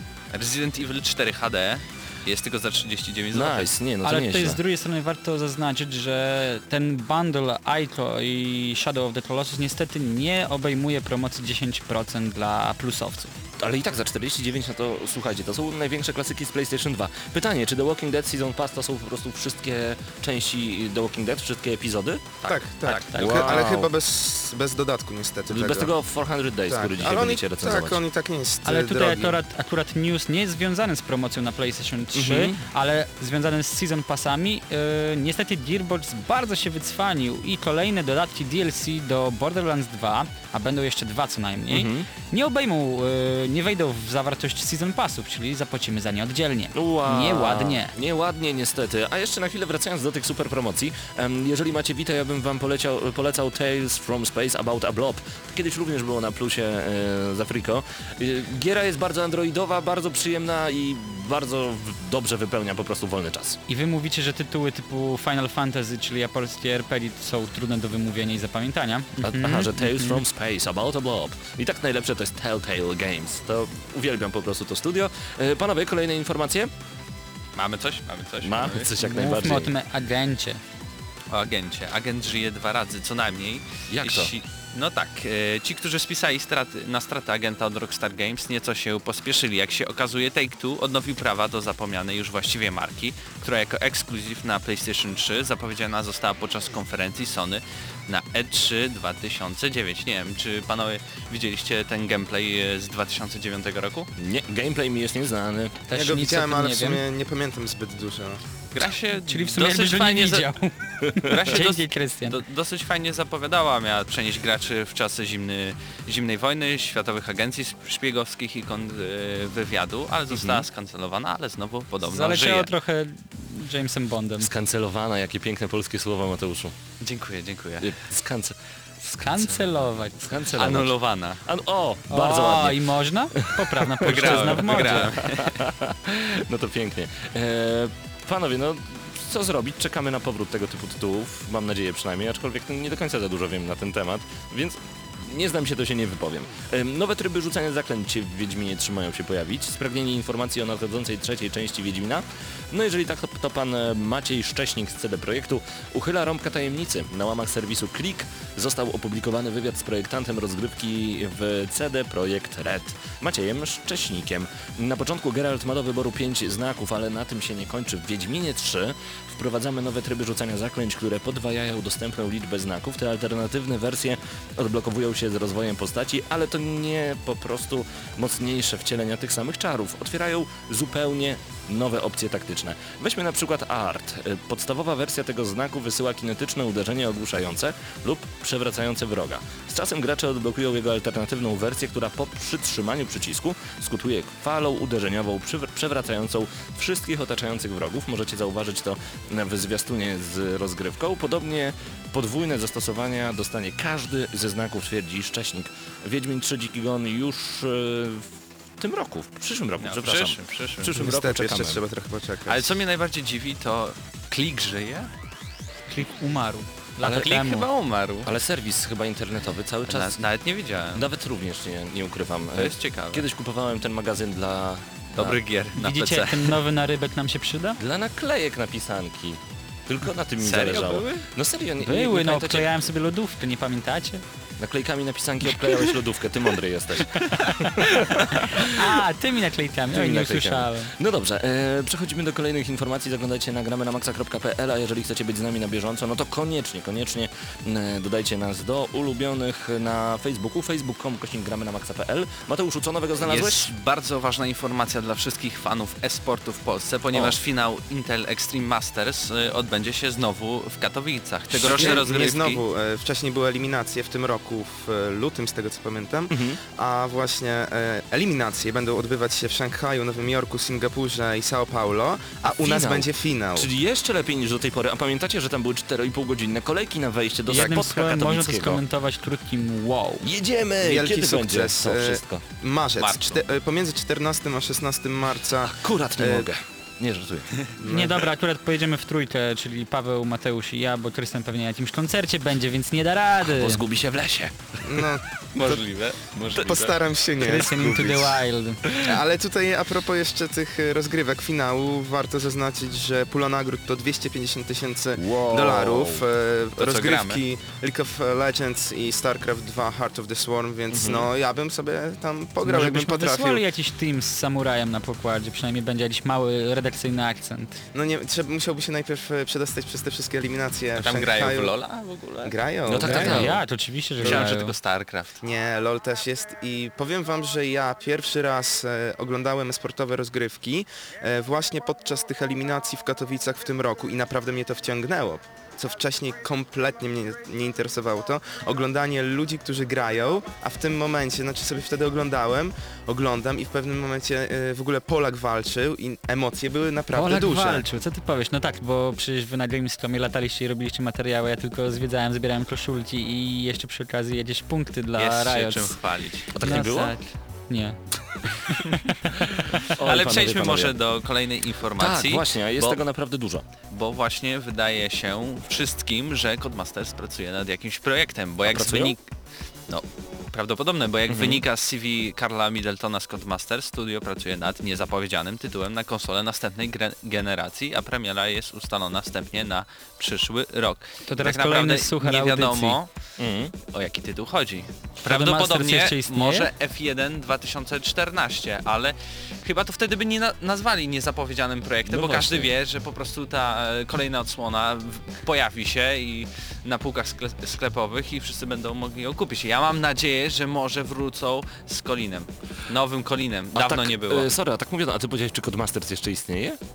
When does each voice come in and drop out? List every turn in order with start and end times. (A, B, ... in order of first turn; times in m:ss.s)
0:00.3-0:03.7 A
0:03.3-0:04.6 B
0:04.0-0:13.4 C
0:13.6-0:22.2 B
0:22.4-0:23.3 A
0:22.5-0:25.9 D
0:22.9-0:23.6 C
0:23.2-0:23.9 B
0:25.5-0:28.0 B
0:26.7-0:29.4 D
0:28.6-0:47.9 C
0:32.1-0:32.6 B
0:41.7-0:42.1 B
0:46.7-1:03.6 B
1:03.7-1:10.2 C
1:09.2-1:16.7 B
1:17.6-1:18.9 A
1:18.4-1:19.7 B
1:19.0-1:20.6 C
1:21.3-1:44.1 A
1:23.9-1:24.3 B
1:44.2-1:45.8 B
1:45.9-1:47.0 C
1:45.9-1:48.4 D
1:48.7-1:50.5 A
1:49.3-1:52.4 C
1:51.2-2:02.7 A
2:00.3-2:00.6 B
2:02.0-2:04.5 C
2:04.4-2:06.8 B
2:07.0-2:08.0 A
2:07.8-3:31.8 B
2:09.2-2:10.3 C
2:10.5-2:11.4 A
2:12.1-2:15.2 C
2:14.0-2:15.6 A
3:29.8-3:31.0 A
3:30.9-3:32.8 D
3:32.5-3:35.1 A
3:35.9-3:37.7 C
3:37.0-3:38.3 A
3:38.2-3:40.2 B
3:39.9-3:41.1 A
3:40.9-3:45.4 B
3:42.6-3:43.3 A
3:45.2-3:46.6 A
3:45.8-3:47.8 C
3:47.8-3:52.7 B
3:50.4-3:51.2 A
3:51.8-3:54.2 C
3:54.6-3:59.0 B
3:57.3-4:00.9 C
3:59.9-4:13.7 B
4:13.2-4:22.6 A
4:21.5-4:33.7 D
4:21.6-4:22.1 B
4:26.3-4:26.6 B
4:32.5-4:38.8 B
4:37.5-4:40.2 C
4:40.2-4:42.4 B
4:40.8-4:46.5 D
4:43.0-4:43.4 A
4:45.6-4:47.6 B
4:47.8-4:48.2 D
4:47.8-4:53.8 C
4:53.4-4:55.1 B
4:54.8-4:55.8 D
4:55.5-4:57.0 A
4:56.5-5:13.6 D
4:57.4-4:59.0 C
5:05.2-5:06.3 B
5:06.8-5:07.4 A
5:10.9-5:11.3 B
5:12.6-5:17.8 C
5:17.9-5:21.7 D
5:21.0-5:23.4 A
5:22.4-5:23.5 D
5:22.9-5:23.6 B
5:23.0-5:24.7 C
5:24.2-5:25.4 A
5:25.4-5:47.9 D
5:47.1-5:56.0 C
5:55.2-5:56.6 A
5:56.5-5:57.2 B
5:56.6-5:59.8 C
5:59.8-6:03.0 A
5:59.9-6:01.0 B
6:02.0-6:03.6 B
6:03.9-6:09.3 A
6:08.6-6:09.2 B
6:09.9-6:23.1 A
6:11.3-6:11.6 B
6:21.3-6:23.0 C
6:23.4-6:23.8 B
6:23.9-6:44.5 A
6:25.2-6:26.7 C
6:32.1-6:32.7 B
6:43.7-6:46.8 B